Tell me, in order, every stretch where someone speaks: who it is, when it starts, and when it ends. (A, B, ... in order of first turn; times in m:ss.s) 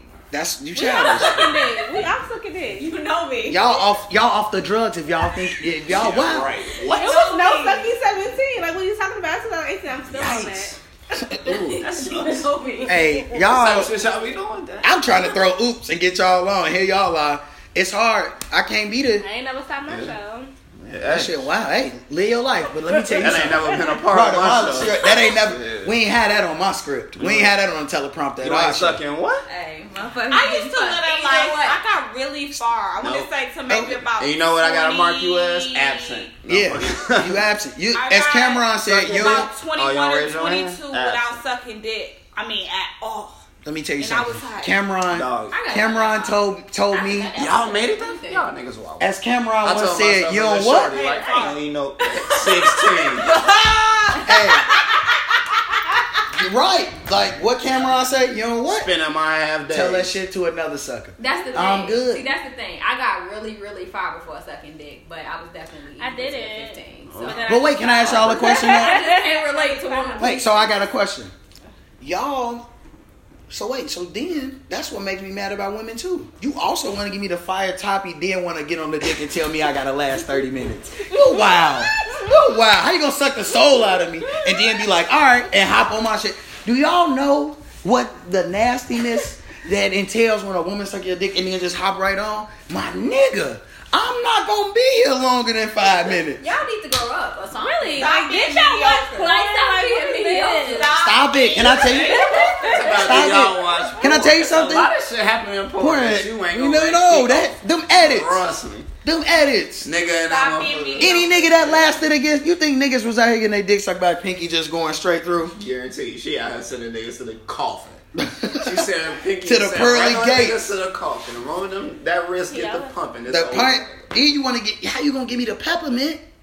0:00.3-0:01.6 A
0:00.8-0:02.9 B
0:01.1-0:02.0 C
0:02.8-0:03.8 C
0:03.5-0:06.5 A
0:05.9-0:07.1 D
0:06.9-0:07.8 C
0:06.9-0:10.8 B
0:07.0-0:07.9 E
0:10.1-0:10.8 D
0:11.1-0:11.8 A
0:11.5-0:13.0 C
0:11.7-0:12.5 D
0:12.0-0:12.4 B
0:12.8-0:13.9 A
0:13.4-0:15.2 D
0:14.8-0:19.3 A
0:19.2-0:20.5 B
0:19.9-0:20.1 D
0:20.8-0:21.4 D
0:21.1-0:29.0 A
0:22.9-0:23.8 B
0:23.2-0:25.9 D
0:27.2-0:27.5 D
0:28.4-0:29.5 D
0:29.5-0:31.8 C
0:30.3-0:36.3 E
0:33.0-0:33.3 D
0:33.7-0:34.0 A
0:34.2-0:37.4 D
0:36.5-0:39.5 A
0:37.9-0:43.4 E
0:38.8-0:41.4 D
0:43.6-0:47.3 A
0:44.0-0:44.8 E
0:45.1-0:45.6 D
0:45.5-0:48.5 C
0:47.4-0:49.1 D
0:49.0-0:51.0 A
0:49.6-0:53.4 D
0:50.9-0:51.6 E
0:53.2-0:54.8 E
0:54.2-0:54.7 A
0:56.3-0:58.9 A
0:58.7-1:00.2 D
0:59.7-1:02.3 A
1:01.2-1:07.5 C
1:06.0-1:10.6 B
1:07.1-1:08.6 D
1:07.5-1:09.0 A
1:08.0-1:10.8 C
1:10.2-1:11.3 A
1:12.0-1:12.7 A
1:13.5-1:36.4 A
1:21.1-1:22.4 B
1:24.3-1:24.8 B
1:36.4-1:38.1 C
1:37.6-1:40.9 B
1:38.0-1:39.4 E
1:39.1-1:43.0 C
1:40.6-1:42.7 E
1:40.9-1:42.3 A
1:42.1-1:43.2 B
1:42.3-1:48.9 D
1:42.9-1:44.9 A
1:43.8-1:44.1 B
1:45.8-1:48.4 A
1:49.0-1:49.9 A
1:49.8-1:52.0 D
1:50.3-1:51.7 E
1:51.0-1:55.6 A
1:55.6-1:58.0 D
1:58.2-1:58.9 A
1:58.5-2:04.0 D
1:59.4-2:00.7 A
2:02.5-2:02.9 B
2:03.3-2:06.2 A